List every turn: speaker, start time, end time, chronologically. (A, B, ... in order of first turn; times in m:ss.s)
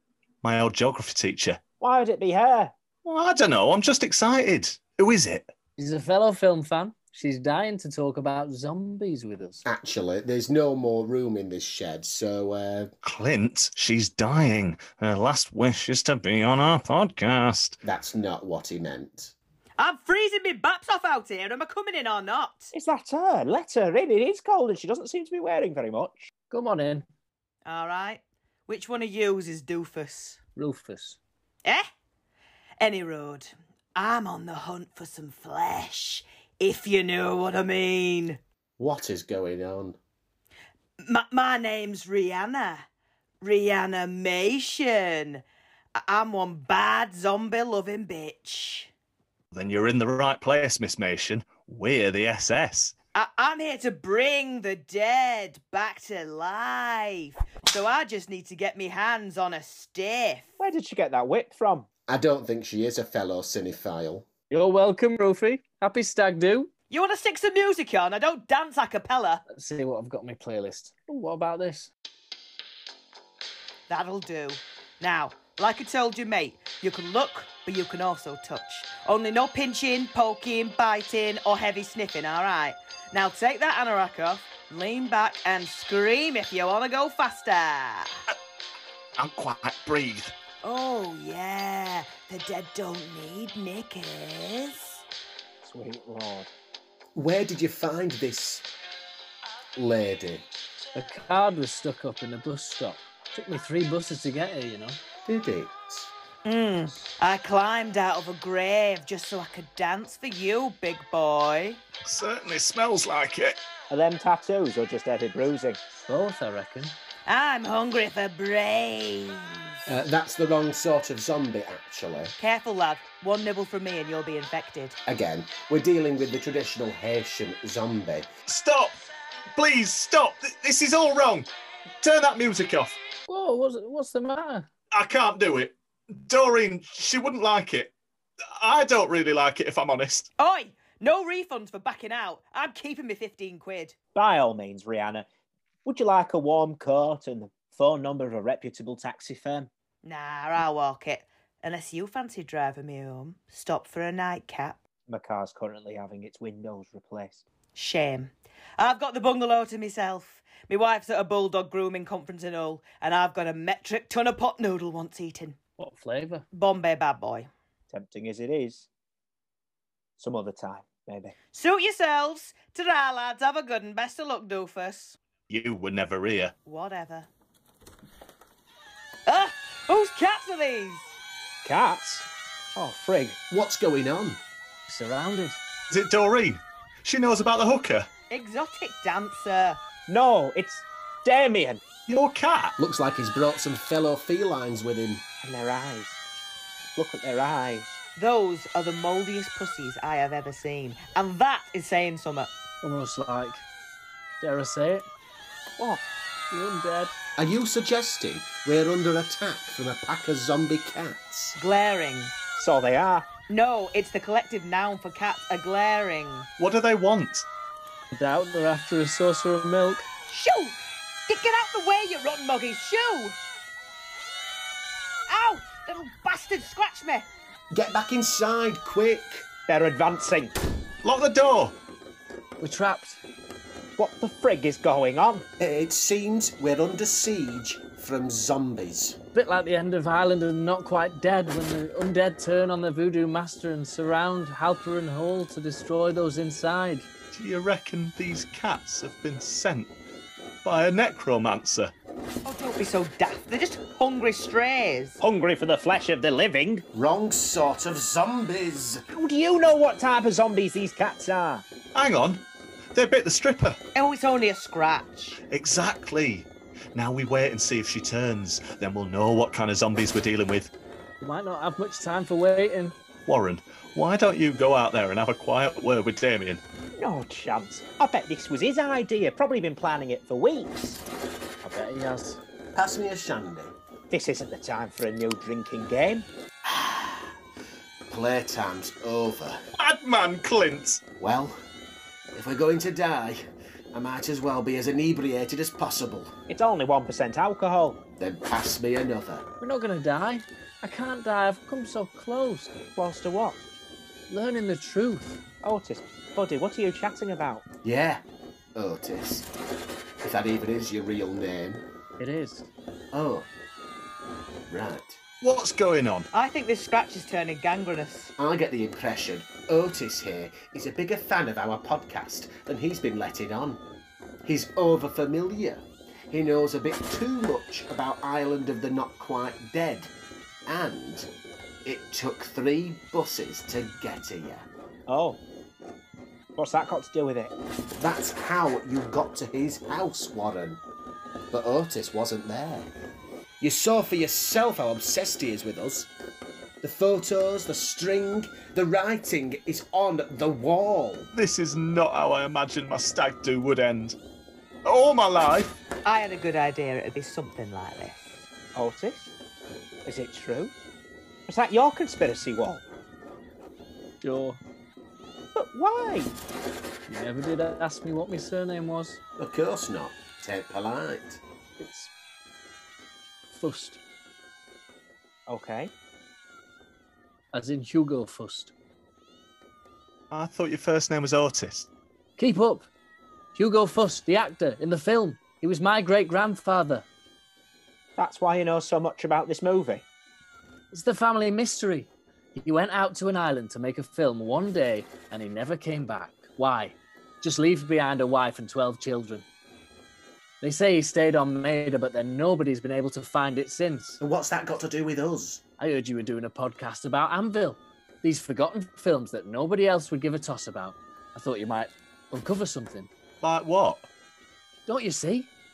0:00.4-0:01.6 A
0:01.8-0:02.7 B
0:03.0-0:05.5 A
0:05.8-0:09.6 C
0:09.6-0:12.9 D
0:13.0-0:17.8 A
0:17.8-0:19.3 D
0:19.8-0:22.7 E
0:22.7-0:26.3 B
0:26.5-0:27.0 C
0:27.6-0:30.4 E
0:30.6-0:31.2 C
0:32.8-0:38.4 E
0:38.8-0:40.0 D
0:41.0-0:42.8 E
0:43.4-0:45.4 E
0:46.0-0:48.9 E
0:49.5-0:52.9 A
0:53.1-1:00.5 E
1:00.6-1:01.9 B
1:02.1-1:04.3 D
1:04.5-1:06.7 C
1:06.9-1:09.4 E
1:09.5-1:11.9 C
1:13.9-1:28.1 E
1:29.2-1:30.3 A
1:30.6-1:35.0 E
1:35.6-1:36.5 B
1:37.1-1:38.6 D
1:39.8-1:40.4 D
1:40.9-1:45.0 C
1:45.2-1:46.1 D
1:46.4-1:51.8 E
1:52.0-1:53.6 A
1:53.9-1:55.8 B
1:56.0-1:56.9 C
1:57.3-1:59.7 E
1:59.9-2:02.3 D
2:02.4-2:05.0 E
2:05.0-2:08.3 D
2:08.5-2:09.0 A
2:09.5-2:11.5 A
2:12.0-2:13.0 A
2:13.3-2:14.7 C
2:14.9-2:17.9 A
2:18.5-2:20.3 A
2:20.4-2:23.9 E
2:24.1-2:25.3 B
2:25.8-2:29.7 B
2:30.0-2:34.8 E
2:35.1-2:37.4 B
2:37.7-2:45.6 E
2:45.8-2:46.4 C
2:46.5-2:47.5 E
2:47.9-2:48.9 B
2:50.2-2:51.4 B
2:51.5-2:55.2 E
2:55.5-2:56.5 A
2:56.6-2:57.3 E
2:59.3-3:01.1 E
3:01.6-3:03.4 B
3:03.5-3:04.4 D
3:04.9-3:05.6 C
3:05.9-3:08.1 A
3:08.3-3:09.8 E
3:10.1-3:11.8 B
3:12.1-3:12.7 A
3:12.8-3:15.2 D
3:15.4-3:16.2 B
3:16.9-3:18.0 B
3:18.2-3:22.5 E
3:22.8-3:23.6 C
3:24.4-3:25.1 C
3:26.5-3:27.1 C
3:27.4-3:31.6 D
3:31.6-3:32.3 E
3:32.6-3:33.3 B
3:33.5-3:36.5 E
3:36.6-3:37.5 A
3:38.1-3:40.1 C
3:40.3-3:43.4 E
3:45.3-3:47.3 E
3:47.7-3:49.5 D
3:49.7-3:50.6 B
3:51.0-3:51.8 A
3:52.6-3:53.2 C
3:54.0-3:55.5 B
3:55.6-3:59.2 D
3:59.3-4:07.1 C
4:07.3-4:09.9 A
4:10.6-4:11.9 A
4:12.4-4:15.2 E
4:15.2-4:16.8 B
4:16.9-4:19.0 D
4:19.1-4:21.6 B
4:21.9-4:23.8 A
4:23.9-4:25.4 E
4:25.5-4:30.7 A
4:31.2-4:32.9 C
4:33.2-4:36.6 A
4:37.0-4:41.1 B
4:41.6-4:42.4 C
4:42.7-4:43.7 D
4:44.1-4:46.3 B
4:46.7-4:47.2 D
4:48.1-4:49.6 D
4:49.8-4:51.0 A
4:51.2-4:51.6 D
4:52.3-4:56.3 D
4:56.5-4:58.0 B
4:58.2-4:59.5 D
4:59.6-5:02.8 C
5:02.9-5:03.6 B
5:04.3-5:05.4 C
5:05.6-5:07.6 B
5:07.8-5:08.2 D
5:08.8-5:09.5 D
5:10.2-5:11.8 D
5:12.2-5:12.7 C
5:13.1-5:13.5 D
5:14.7-5:15.2 D
5:15.4-5:16.3 A
5:16.3-5:18.3 E
5:18.4-5:23.8 D
5:24.4-5:30.1 D
5:30.7-5:31.3 D
5:31.8-5:34.7 D
5:35.1-5:35.4 B
5:36.5-5:37.5 B
5:37.9-5:40.8 D
5:41.5-5:42.9 D
5:43.6-5:46.1 D
5:46.8-5:51.3 D
5:51.3-5:54.2 A
5:54.8-5:55.8 A
5:56.0-5:58.5 E
5:58.7-5:59.3 B
6:00.0-6:00.7 B
6:01.5-6:02.8 B
6:04.2-6:04.6 C
6:05.5-6:06.4 B
6:07.1-6:09.2 C
6:09.4-6:11.4 D
6:11.8-6:12.1 C
6:13.5-6:14.0 C
6:15.5-6:15.9 B
6:17.5-6:18.7 C
6:20.3-6:21.9 A
6:22.4-6:22.9 C
6:23.6-6:27.0 C
6:28.2-6:30.1 B
6:30.9-6:39.4 C
6:40.6-6:44.2 C
6:44.2-6:45.6 D
6:45.8-6:53.1 C
6:53.4-6:54.1 A
6:54.9-6:55.5 C